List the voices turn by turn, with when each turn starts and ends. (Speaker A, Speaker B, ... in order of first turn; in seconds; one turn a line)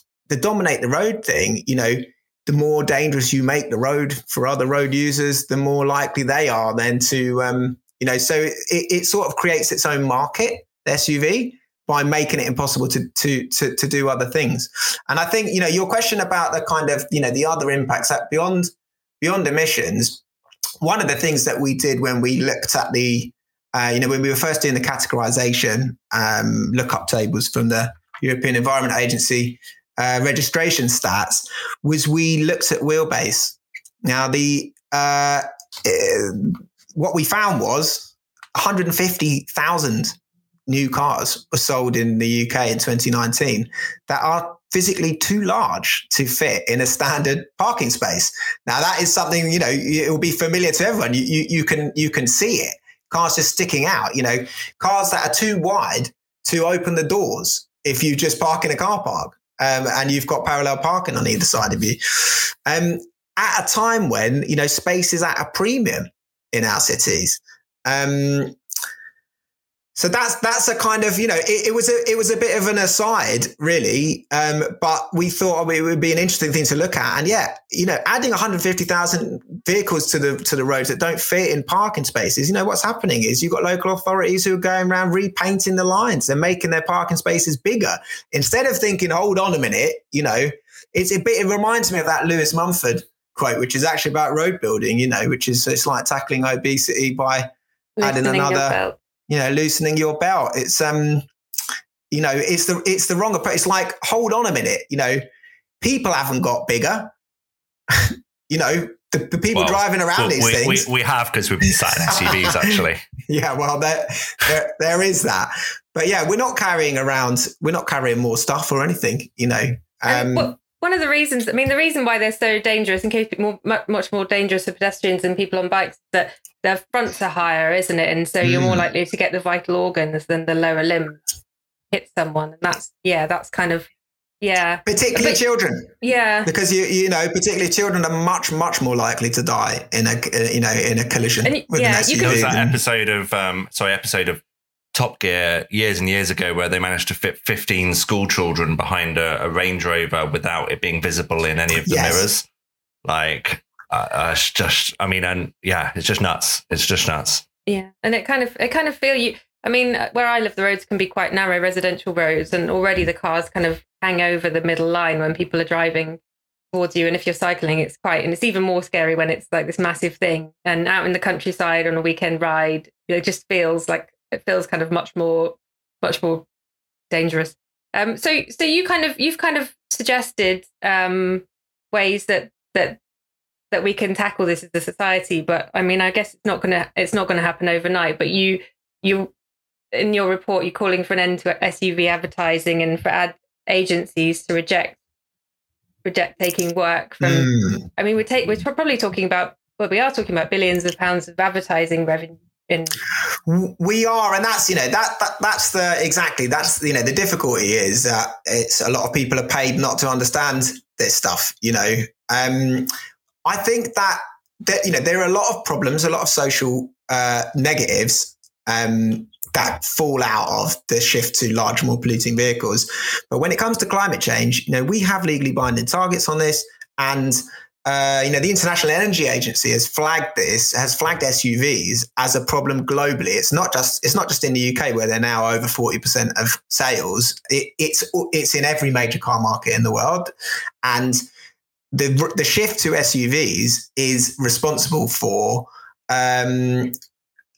Speaker A: 0.3-20.2
Speaker A: 20.8-68.6
Speaker A: 70.0-97.5
Speaker B: 98.0-99.0
Speaker A: 98.0-101.3
Speaker A: 102.1-105.2
Speaker A: 105.8-107.1
Speaker A: 107.9-110.9
Speaker C: 109.5-113.0
Speaker A: 111.7-112.8
Speaker A: 113.3-120.5
Speaker B: 120.1-131.2
Speaker A: 128.4-128.9
Speaker B: 131.9-133.8
Speaker B: 134.4-135.4
Speaker A: 134.8-135.9
Speaker B: 136.0-136.5
Speaker A: 136.4-142.8
Speaker B: 141.4-142.4
Speaker C: 142.1-144.4
Speaker C: 144.9-152.4
Speaker A: 151.8-152.2
Speaker C: 153.0-157.4
Speaker B: 157.7-166.2
Speaker B: 166.7-176.4
Speaker B: 177.1-183.0
Speaker B: 183.7-189.3
Speaker B: 189.9-195.0
Speaker B: 196.0-202.9
Speaker A: 197.2-197.9
Speaker A: 203.4-212.9
Speaker A: 213.4-240.3
Speaker A: 240.8-241.2
Speaker A: 241.9-246.9